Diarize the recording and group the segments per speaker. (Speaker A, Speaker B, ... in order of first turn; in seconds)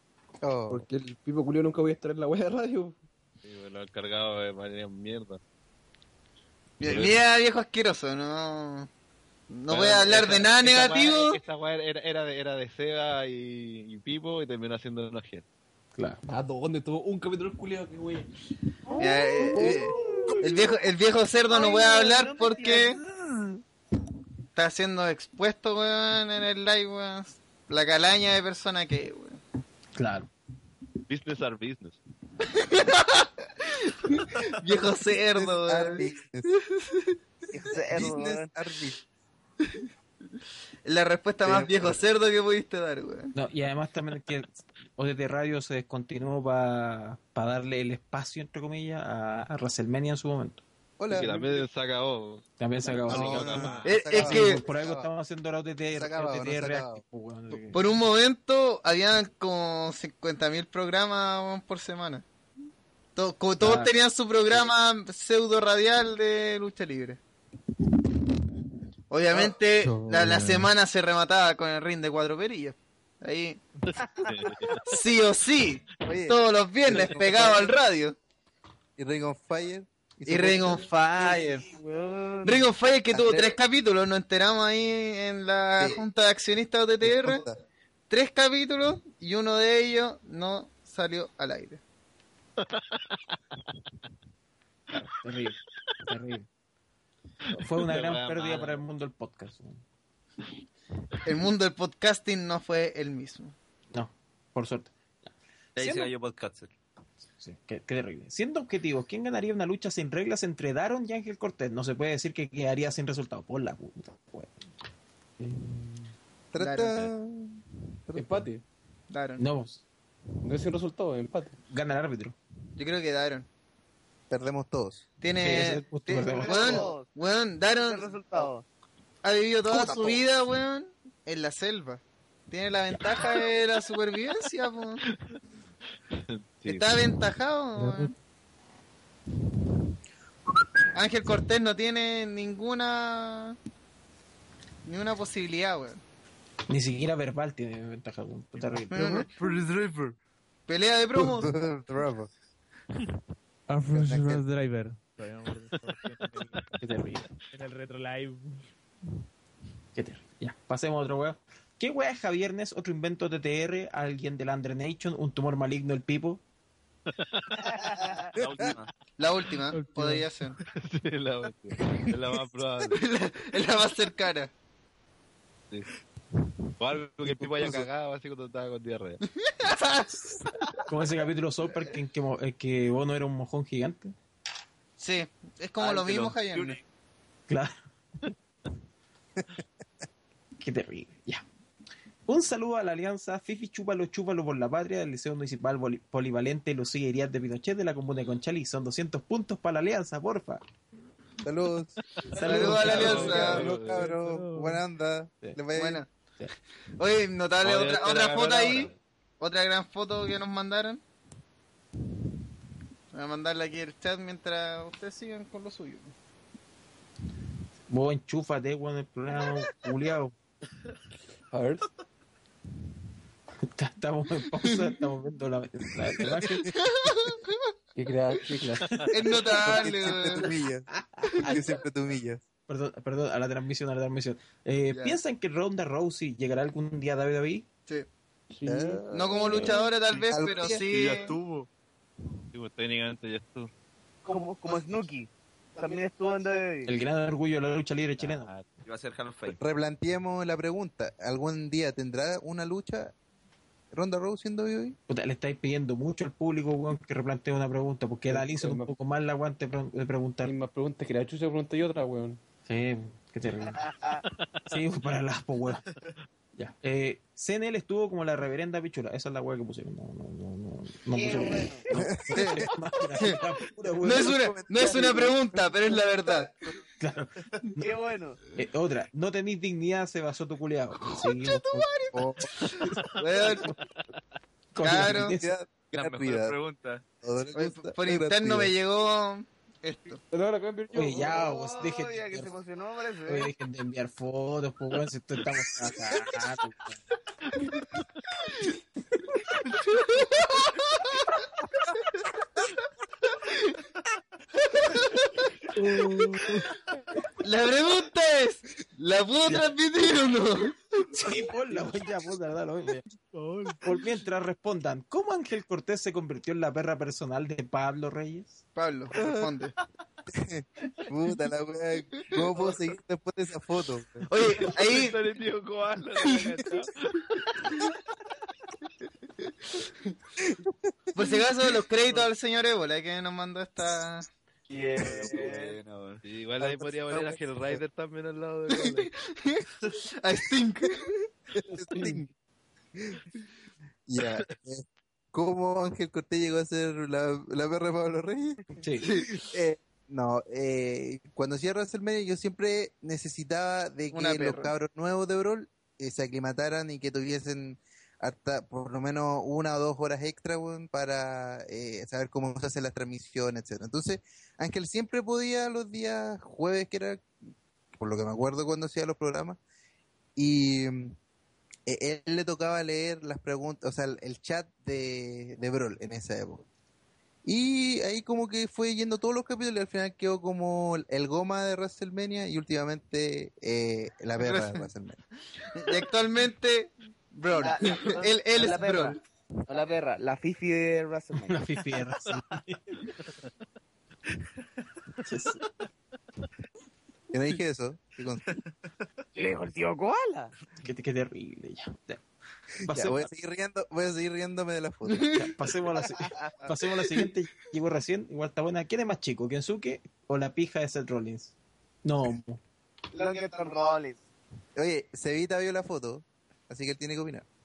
Speaker A: 0.4-0.8, 19.6-19.9, 35.3-36.5, 37.9-39.0, 41.4-41.9, 51.0-51.4, 53.1-55.1, 55.9-57.0, 76.0-77.7, 79.0-80.8, 83.1-83.5, 85.8-86.0, 87.0-87.6, 116.5-118.5, 124.3-125.0, 129.8-130.1, 151.1-152.3, 153.9-154.4, 201.4-206.0, 229.5-230.9, 231.4-232.4, 238.7-239.8, 240.3-240.8, 249.6-253.1, 253.9-255.0, 271.9-272.7, 274.1-275.4, 276.2-276.5, 282.1-282.5, 285.2-286.6, 287.2-288.7, 319.1-319.5, 320.3-324.3, 330.4-331.3, 336.6-337.1, 341.6-342.3, 344.1-348.8, 349.3-367.3, 367.9-369.6, 370.4-371.1, 371.9-376.6, 377.4-385.2, 397.3-398.4, 402.8-405.3, 414.8-417.4
Speaker B: 0.7-3.0, 16.3-18.3, 115.4-116.1, 118.1-118.6, 120.4-121.5, 221.5-221.9, 227.9-229.0, 238.5-239.7, 258.3-258.9, 260.4-262.4, 290.3-291.5, 341.9-342.2
Speaker C: 3.4-5.4, 6.8-7.2, 9.7-15.4, 31.1-32.0, 51.1-53.9, 74.2-74.8, 97.7-98.8, 136.3-136.8, 167.2-167.5, 170.6-173.0, 176.8-179.2, 202.6-204.1, 207.6-208.9, 240.9-241.7, 242.5-243.7, 248.2-248.7, 324.6-327.2, 336.2-339.1
Speaker D: 6.8-8.9, 9.5-11.4, 19.0-23.0, 24.6-29.4, 32.4-37.1, 40.8-43.3, 53.8-54.6, 57.7-62.2, 63.1-67.2, 69.1-73.6, 74.8-78.2, 80.2-81.6, 82.4-87.4, 88.1-91.8, 101.2-103.5, 116.6-117.0, 119.1-119.4, 122.8-123.5, 125.2-128.1, 129.2-135.0, 136.7-138.1, 140.9-143.6, 144.8-146.0, 148.9-149.3, 150.7-151.5, 169.2-170.6, 172.9-174.5, 179.4-180.4, 185.0-186.8, 202.4-203.7, 205.7-206.1, 207.0-211.0, 213.1-216.1, 226.7-227.5, 229.1-230.5, 234.9-235.2, 239.1-241.3, 274.0-276.5, 281.1-283.7, 284.8-285.4, 287.5-290.2, 299.7-301.2, 303.4-303.7, 304.7-305.5, 307.4-311.1, 318.8-319.7, 324.3-325.1, 331.1-334.3, 338.8-341.2, 349.0-349.4, 354.1-354.7, 384.4-384.9, 385.6-389.2, 405.1-405.5
Speaker E: 15.9-16.2, 29.9-30.3, 43.3-50.6, 52.6-57.9, 63.6-63.9, 94.9-96.5, 97.5-99.8, 103.9-105.3, 107.4-114.5, 119.4-119.8, 121.7-122.3, 125.4-126.9, 146.7-149.3, 156.8-157.2, 159.9-166.4, 180.8-184.1, 187.5-187.8, 190.6-191.4, 192.3-200.6, 202.3-203.7, 217.9-220.3, 223.6-226.7, 228.9-230.1, 231.2-231.6, 232.7-237.7, 239.4-239.8, 246.8-248.5, 255.1-260.5, 262.6-263.8, 264.7-265.8, 266.6-274.4, 277.0-277.9, 278.6-281.9, 284.7-285.5, 290.9-292.5, 293.3-297.0, 306.1-306.4, 309.4-309.7, 311.1-313.0, 313.8-318.6, 348.8-349.1, 391.5-393.1, 395.2-395.6, 400.8-402.2, 402.8-403.3, 405.2-412.6
Speaker F: 21.5-23.0, 37.5-38.5, 81.2-82.6, 126.2-127.1, 127.8-128.6, 244.2-246.9, 263.7-264.2, 271.1-271.8, 277.8-278.4, 291.3-293.5, 334.7-335.7, 387.6-391.6, 399.3-400.5, 413.1-414.2
Speaker G: 105.8-106.7, 168.3-168.9, 185.8-186.8, 248.8-249.6, 285.9-287.0, 335.0-336.2
Speaker H: 137.8-138.1, 153.7-158.6, 169.7-170.3, 203.2-204.8, 305.7-306.6, 313.3-313.8